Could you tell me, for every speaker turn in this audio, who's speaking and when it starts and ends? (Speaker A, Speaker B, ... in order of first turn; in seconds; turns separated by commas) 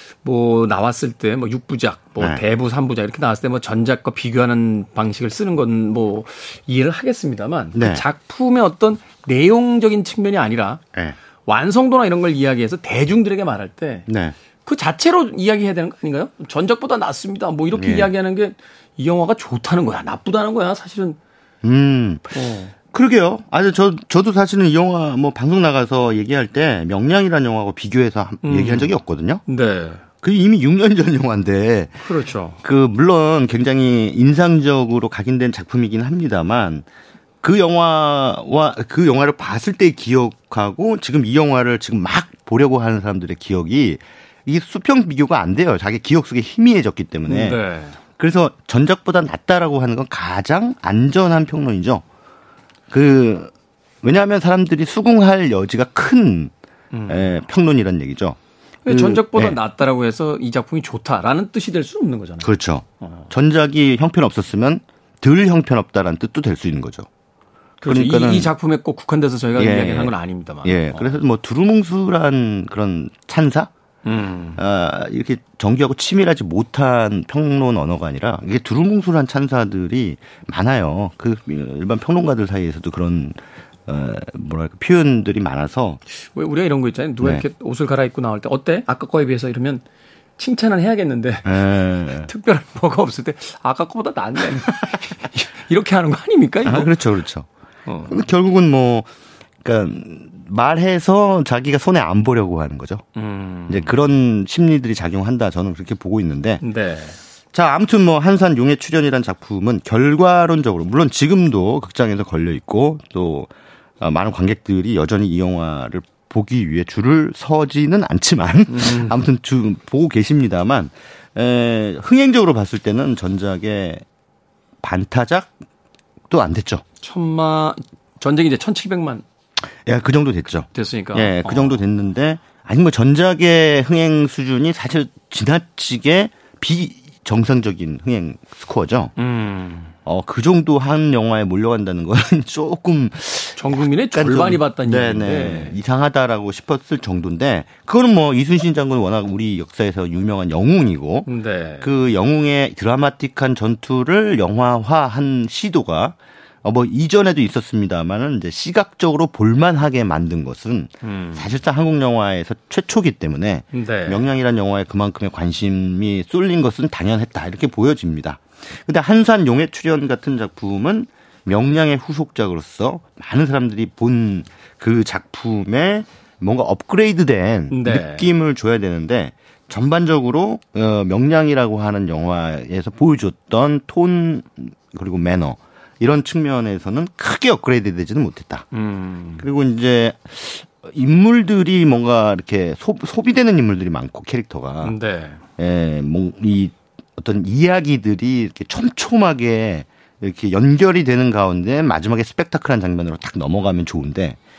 Speaker A: 0.2-10.8, Speaker B: 2.2-2.5, Speaker B: 7.7-8.1, Speaker A: 11.4-14.1, Speaker B: 14.1-14.3, Speaker A: 14.7-21.2, Speaker B: 17.7-18.1, Speaker B: 21.6-29.4, Speaker A: 22.3-22.7, Speaker A: 28.4-28.9, Speaker A: 29.5-30.0, Speaker B: 30.2-32.1, Speaker A: 32.0-32.6, Speaker B: 32.6-36.9, Speaker B: 37.4-47.6, Speaker A: 47.3-48.0, Speaker B: 48.2-52.0, Speaker B: 52.9-53.5, Speaker B: 54.0-56.5, Speaker A: 56.9-57.3, Speaker B: 57.1-59.6, Speaker A: 58.9-62.5, Speaker B: 62.4-67.1, Speaker A: 63.0-63.3, Speaker A: 67.8-71.2, Speaker B: 67.9-68.5, Speaker B: 69.5-73.7, Speaker A: 74.0-74.6, Speaker B: 74.6-86.0, Speaker A: 86.1-89.8, Speaker A: 90.4-91.6, Speaker B: 91.5-92.3, Speaker A: 92.2-96.9, Speaker B: 96.6-97.5, Speaker A: 97.9-98.2, Speaker B: 98.1-99.1, Speaker B: 99.6-103.0, Speaker A: 103.2-103.9, Speaker B: 103.7-106.6, Speaker A: 106.6-107.2, Speaker B: 107.5-124.0, Speaker A: 118.7-119.2, Speaker B: 124.8-125.6, Speaker B: 126.3-126.8, Speaker A: 127.0-129.2, Speaker B: 129.8-139.1, Speaker A: 130.7-131.8, Speaker A: 139.2-139.9, Speaker B: 140.1-151.3, Speaker A: 143.6-145.8, Speaker A: 151.3-151.9, Speaker B: 151.8-188.7, Speaker A: 161.0-161.5, Speaker A: 163.7-164.2, Speaker A: 177.7-178.3, Speaker A: 188.7-189.4, Speaker B: 189.4-195.0, Speaker A: 194.8-195.4, Speaker B: 195.6-204.4